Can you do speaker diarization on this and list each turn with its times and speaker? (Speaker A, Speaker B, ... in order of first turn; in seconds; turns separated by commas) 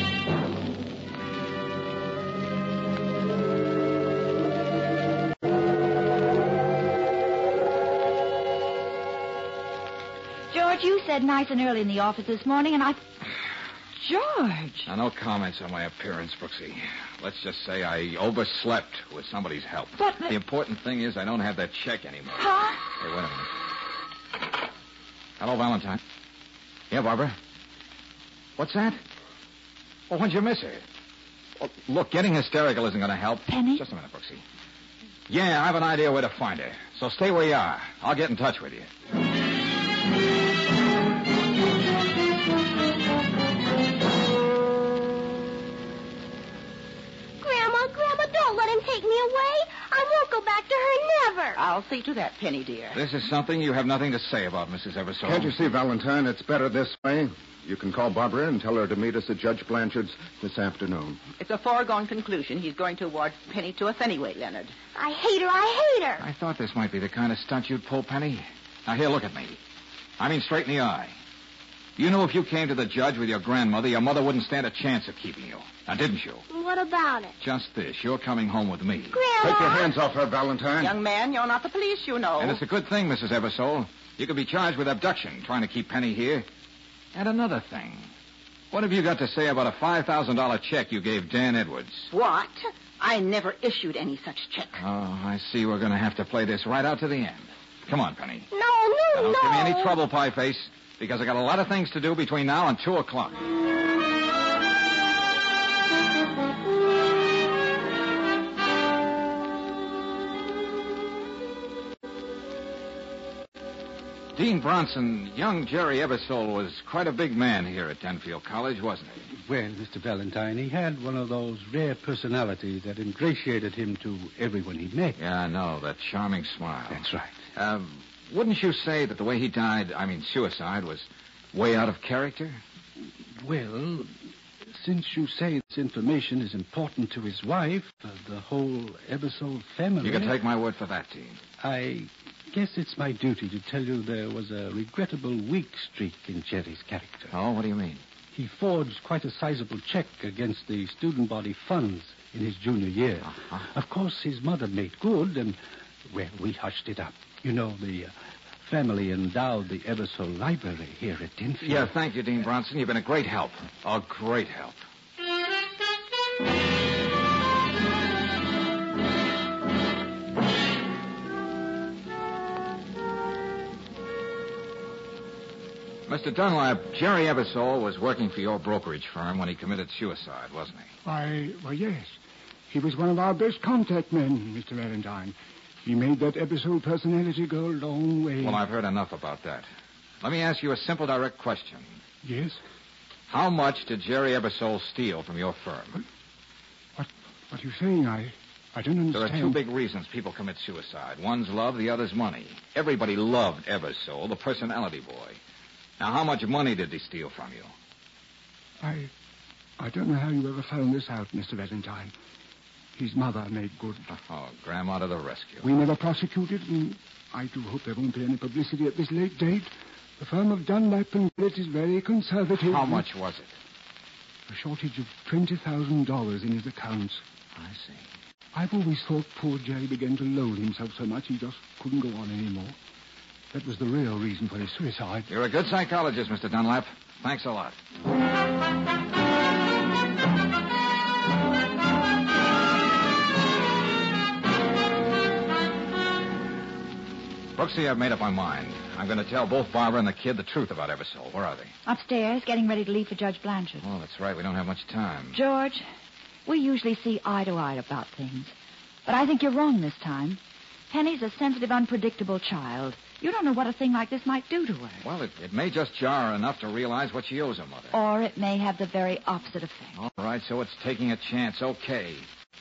Speaker A: 10.5-13.0, Speaker A: 14.0-14.9, Speaker B: 14.8-23.5, Speaker A: 20.0-20.3, Speaker A: 22.4-22.8, Speaker B: 25.4-26.0, Speaker B: 26.9-27.4, Speaker B: 28.6-29.0, Speaker B: 30.1-30.8, Speaker B: 31.6-34.4, Speaker A: 33.5-33.8, Speaker B: 35.3-38.9, Speaker C: 47.4-51.6, Speaker D: 51.6-53.0, Speaker B: 52.9-55.5, Speaker E: 55.2-61.2, Speaker D: 61.3-64.7, Speaker C: 64.9-66.2, Speaker B: 66.2-69.6, Speaker B: 70.2-71.2, Speaker B: 72.0-76.4, Speaker C: 76.5-77.3, Speaker B: 77.4-79.2, Speaker C: 79.1-79.9, Speaker E: 79.4-81.0, Speaker D: 80.8-82.6, Speaker B: 82.4-86.5, Speaker B: 87.1-88.1, Speaker B: 88.7-92.1, Speaker D: 92.1-94.8, Speaker B: 94.8-98.5, Speaker C: 98.5-100.0, Speaker B: 99.1-103.5, Speaker B: 114.3-119.3, Speaker F: 119.3-125.2, Speaker B: 125.2-132.6, Speaker F: 126.9-127.3, Speaker F: 133.3-134.1, Speaker F: 134.7-140.3, Speaker B: 140.0-141.4, Speaker F: 141.6-147.3, Speaker B: 147.3-148.0, Speaker F: 148.3-161.9, Speaker B: 153.3-153.7, Speaker B: 161.6-164.8, Speaker B: 176.1-180.9, Speaker G: 181.0-182.1, Speaker G: 182.7-188.5, Speaker B: 188.4-189.7, Speaker B: 190.2-192.0, Speaker G: 192.2-192.6, Speaker B: 193.3-196.0, Speaker G: 197.0-199.5, Speaker B: 199.1-205.4, Speaker B: 206.0-207.7, Speaker G: 208.8-209.1, Speaker G: 209.8-212.1, Speaker G: 212.9-214.0, Speaker B: 214.1-215.7, Speaker G: 215.6-223.0, Speaker B: 222.5-223.5, Speaker G: 224.5-227.2, Speaker B: 227.5-228.1, Speaker G: 228.5-232.8, Speaker G: 233.5-235.3, Speaker B: 235.3-237.8, Speaker B: 247.5-251.7, Speaker A: 251.8-253.9, Speaker B: 253.8-255.4, Speaker A: 255.3-255.8, Speaker A: 256.4-258.5, Speaker A: 259.0-265.0, Speaker B: 265.0-267.9, Speaker A: 267.9-269.9, Speaker B: 269.9-272.3